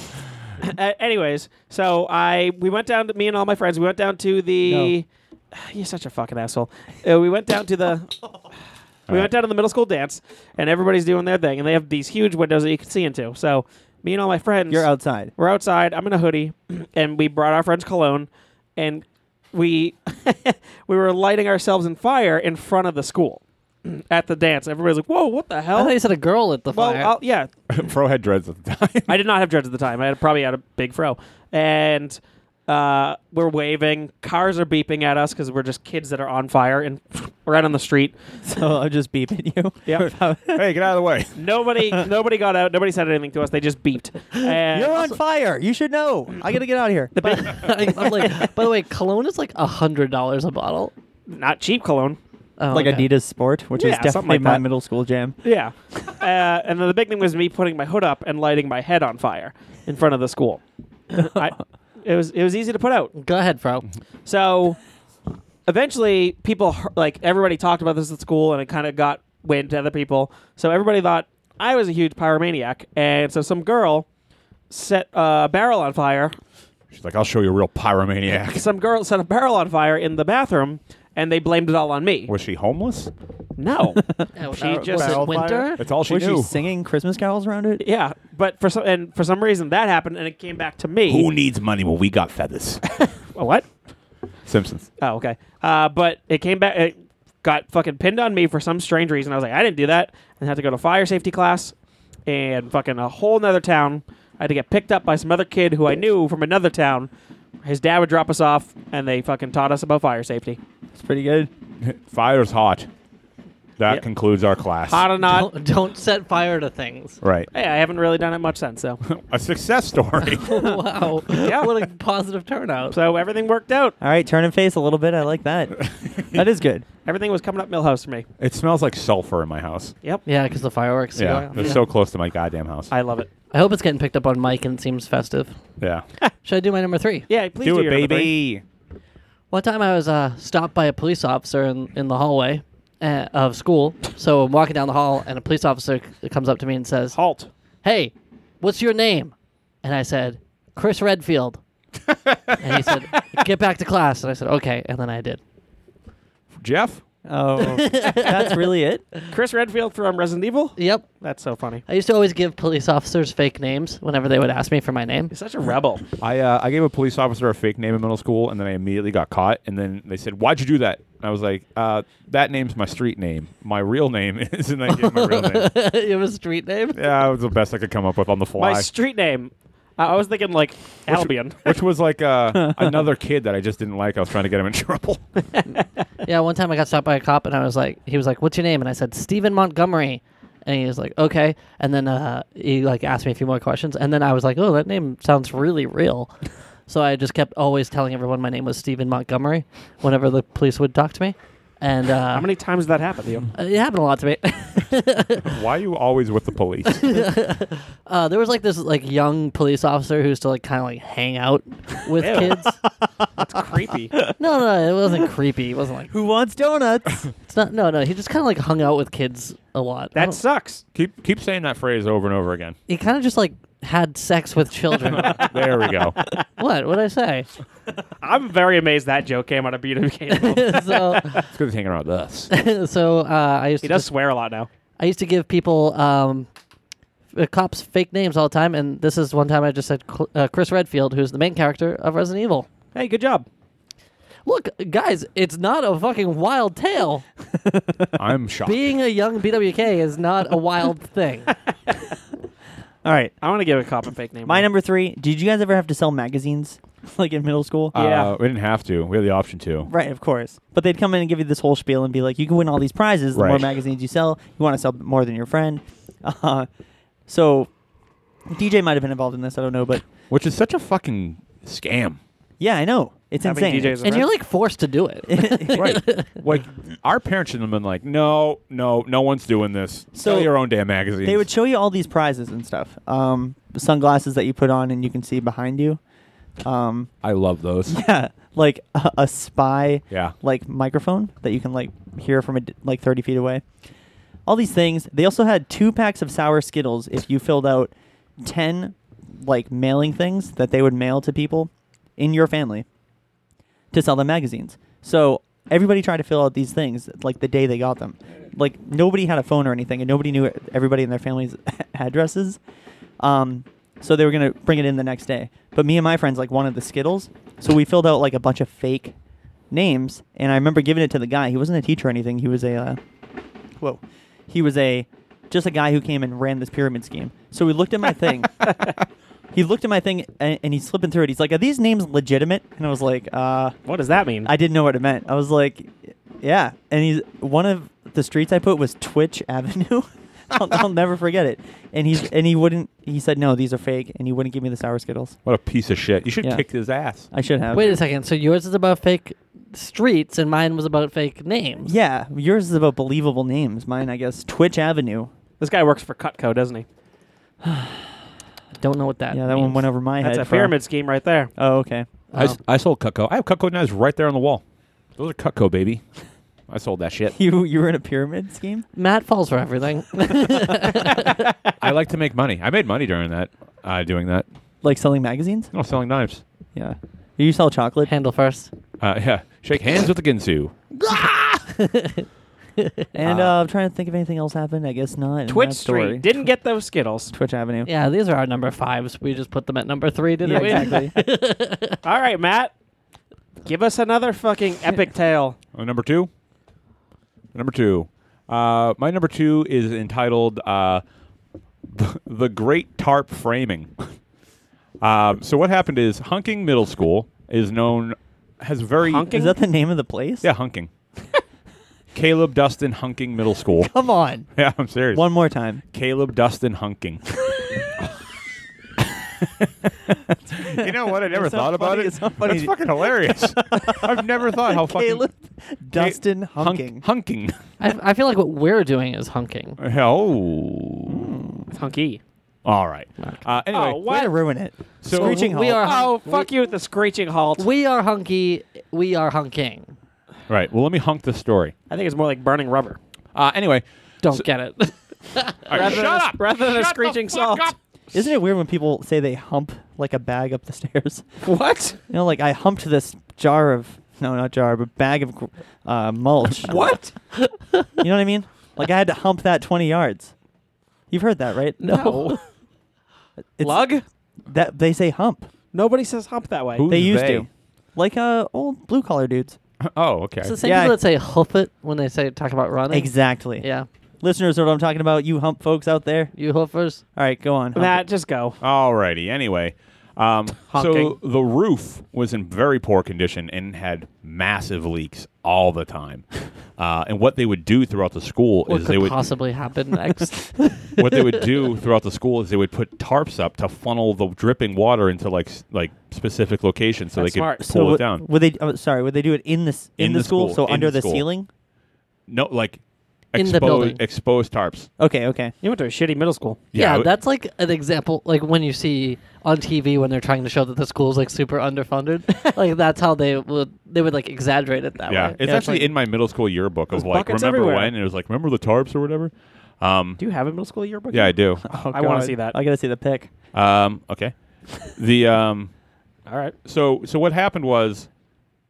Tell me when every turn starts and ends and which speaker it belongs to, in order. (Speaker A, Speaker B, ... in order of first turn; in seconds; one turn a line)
Speaker A: 0.6-8.2
Speaker B: 4.7-4.9
Speaker A: 9.1-25.9
Speaker B: 14.7-15.3
Speaker C: 25.7-27.1
Speaker A: 26.7-27.5
Speaker D: 27.7-29.2
Speaker A: 29.1-38.2
Speaker B: 38.4-40.6
Speaker D: 40.5-41.5
Speaker A: 41.4-45.1
Speaker B: 44.6-47.7
Speaker A: 47.1-48.4
Speaker C: 47.3-50.9
Speaker A: 51.3-52.2
Speaker C: 52.6-53.1
Speaker B: 52.7-55.4
Speaker A: 53.8-54.6
Speaker A: 55.4-63.1
Speaker C: 63.1-63.9
Speaker A: 64.2-64.8
Speaker A: 65.7-74.1
Speaker A: 74.7-76.3
Speaker D: 76.9-78.7
Speaker A: 78.3-82.3
Speaker D: 82.3-83.1
Speaker A: 83.6-85.7
Speaker C: 84.3-85.8
Speaker B: 84.7-87.8
Speaker D: 85.8-86.5
Speaker A: 87.8-91.3
Speaker D: 91.1-92.8
Speaker A: 93.2-93.7
Speaker D: 94.5-94.9
Speaker A: 95.0-101.7
Speaker A: 102.3-107.1
Speaker A: 107.6-110.6
Speaker B: 110.9-111.5
Speaker D: 111.8-112.9
Speaker D: 113.8-115.1
Speaker A: 114.9-115.5
Speaker C: 115.2-117.2
Speaker D: 117.2-117.5
Speaker A: 117.5-119.0
Speaker D: 119.0-120.6
Speaker C: 120.2-123.0
Speaker A: 121.4-121.7
Speaker A: 122.9-123.9
Speaker B: 124.0-126.8
Speaker D: 126.0-126.2
Speaker A: 127.0-128.2
Speaker D: 128.4-129.9
Speaker C: 130.2-131.8
Speaker D: 131.2-132.9
Speaker A: 131.5-131.8
Speaker A: 132.9-133.3
Speaker C: 133.5-135.5
Speaker D: 135.8-136.0
Speaker C: 136.4-137.3
Speaker A: 137.3-138.3
Speaker D: 137.6-138.6
Speaker C: 139.5-147.2
Speaker A: 147.1-147.5
Speaker C: 147.8-151.6
Speaker D: 152.1-152.6
Speaker C: 152.6-155.4
Speaker D: 156.6-157.0
Speaker B: 157.2-159.0
Speaker C: 157.6-158.6
Speaker A: 159.3-161.8
Speaker C: 160.8-161.1
Speaker C: 161.8-165.3
Speaker A: 165.3-166.0
Speaker D: 166.2-175.7
Speaker C: 174.9-177.0
Speaker D: 176.9-178.9
Speaker A: 178.6-181.7
Speaker D: 181.1-185.2
Speaker B: 182.6-182.9
Speaker C: 186.2-196.3
Speaker C: 196.9-202.5
Speaker A: 202.3-203.5
Speaker C: 203.5-205.6
Speaker D: 205.4-207.1
Speaker C: 206.9-212.8
Speaker A: 212.2-212.6
Speaker B: 213.0-213.3
Speaker A: 213.4-214.1
Speaker C: 214.4-216.1
Speaker B: 216.1-217.3
Speaker C: 217.5-220.4
Speaker A: 220.1-220.8
Speaker D: 220.9-222.8
Speaker C: 222.9-225.4
Speaker D: 225.2-226.2
Speaker A: 225.2-225.6
Speaker C: 226.6-227.5
Speaker A: 228.2-231.4
Speaker C: 230.3-231.4
Speaker D: 231.5-232.5
Speaker C: 232.5-234.1
Speaker A: 233.8-234.7
Speaker C: 235.0-236.5
Speaker C: 237.3-242.7
Speaker A: 242.9-243.5
Speaker C: 244.4-247.2
Speaker B: 247.5-248.2
Speaker D: 248.2-248.8
Speaker C: 248.7-251.5
Speaker B: 253.0-253.3
Speaker A: 253.4-254.7
Speaker B: 254.4-257.9
Speaker D: 257.9-259.9
Speaker A: 257.9-258.3
Speaker B: 259.8-266.7
Speaker D: 263.3-263.6
Speaker B: 267.3-267.7
Speaker B: 268.5-270.0
Speaker D: 270.3-272.2
Speaker B: 272.6-274.2
Speaker A: 273.4-274.3
Speaker C: 274.0-276.3
Speaker B: 275.3-276.0
Speaker D: 275.7-281.5
Speaker B: 280.1-280.5
Speaker B: 281.2-286.0
Speaker B: 286.6-287.1
Speaker D: 287.2-288.0
Speaker B: 287.9-293.6
Speaker B: 294.4-302.9
Speaker B: 303.9-312.6
Speaker B: 313.2-319.1
Speaker B: 319.7-323.0
Speaker B: 323.8-328.7
Speaker B: 329.5-333.7
Speaker A: 333.9-334.5
Speaker B: 334.4-345.4
Speaker D: 345.4-347.3
Speaker B: 347.3-347.9
Speaker C: 347.7-351.9
Speaker B: 351.9-355.3
Speaker A: 355.6-356.9
Speaker B: 357.6-358.1
Speaker C: 358.8-359.9
Speaker B: 359.3-360.7
Speaker A: 360.2-361.5
Speaker B: 361.6-362.1
Speaker C: 362.3-362.6
Speaker D: 362.3-364.6
Speaker D: 365.2-366.0
Speaker D: 366.7-367.4
Speaker B: 367.3-368.9
Speaker C: 368.9-371.3
Speaker D: 371.8-374.4
Speaker B: 374.8-375.7
Speaker D: 375.7-376.4
Speaker B: 376.7-378.1
Speaker C: 378.0-378.7
Speaker D: 379.0-381.6
Speaker C: 381.7-382.2
Speaker C: 382.8-383.0
Speaker B: 383.1-386.3
Speaker D: 383.2-383.5
Speaker A: 385.5-387.3
Speaker B: 387.3-387.9
Speaker C: 387.9-392.0
Speaker B: 390.4-391.2
Speaker A: 390.5-391.0
Speaker A: 392.0-392.7
Speaker A: 393.6-395.6
Speaker D: 395.7-396.3
Speaker D: 397.5-401.0
Speaker D: 401.9-404.0
Speaker D: 405.0-409.4
Speaker A: 409.1-409.6
Speaker B: 409.3-410.5
Speaker D: 410.4-410.9
Speaker D: 412.1-413.9
Speaker B: 413.8-414.5
Speaker D: 414.6-415.3
Speaker B: 415.1-415.8
Speaker D: 415.9-417.2
Speaker D: 419.4-419.9
Speaker B: 420.5-427.0
Speaker D: 420.5-425.3
Speaker D: 425.9-427.6
Speaker C: 427.8-429.8
Speaker D: 429.8-431.2
Speaker B: 431.1-431.7
Speaker A: 431.7-432.2
Speaker D: 432.6-434.0
Speaker A: 433.7-434.3
Speaker B: 434.0-436.0
Speaker D: 435.0-435.4
Speaker C: 435.1-436.5
Speaker A: 435.8-437.6
Speaker C: 437.6-439.9
Speaker D: 440.5-441.7
Speaker A: 441.9-443.0
Speaker D: 443.3-444.4
Speaker C: 444.2-445.8
Speaker D: 445.6-447.8
Speaker A: 445.7-447.7
Speaker B: 448.1-451.2
Speaker A: 451.4-452.0
Speaker B: 452.1-456.8
Speaker A: 456.6-457.1
Speaker C: 457.3-458.0
Speaker B: 458.0-460.3
Speaker B: 461.1-461.8
Speaker C: 461.8-462.4
Speaker A: 461.8-462.4
Speaker B: 463.6-463.9
Speaker A: 463.6-464.0
Speaker B: 464.5-465.5
Speaker A: 465.7-466.9
Speaker D: 466.8-467.5
Speaker B: 466.9-469.6
Speaker D: 469.8-470.5
Speaker C: 470.4-473.9
Speaker B: 470.6-471.0
Speaker B: 472.9-473.7
Speaker B: 474.2-476.3
Speaker C: 476.3-477.0
Speaker B: 477.1-478.0
Speaker A: 477.7-478.6
Speaker D: 478.6-486.2
Speaker A: 480.7-481.1
Speaker D: 486.8-489.2
Speaker C: 488.7-491.4
Speaker D: 491.0-498.2
Speaker A: 497.1-497.6
Speaker B: 497.6-501.5
Speaker D: 500.0-501.2
Speaker D: 502.3-502.8
Speaker D: 503.3-504.9
Speaker C: 503.3-504.0
Speaker B: 505.0-505.5
Speaker A: 505.6-506.6
Speaker D: 506.7-507.1
Speaker C: 506.7-515.9
Speaker D: 515.1-520.2
Speaker A: 516.9-517.9
Speaker A: 520.2-521.4
Speaker D: 521.1-521.7
Speaker B: 521.7-523.3
Speaker A: 521.9-522.5
Speaker D: 523.5-524.3
Speaker D: 524.8-525.7
Speaker A: 526.3-526.5
Speaker D: 526.6-528.1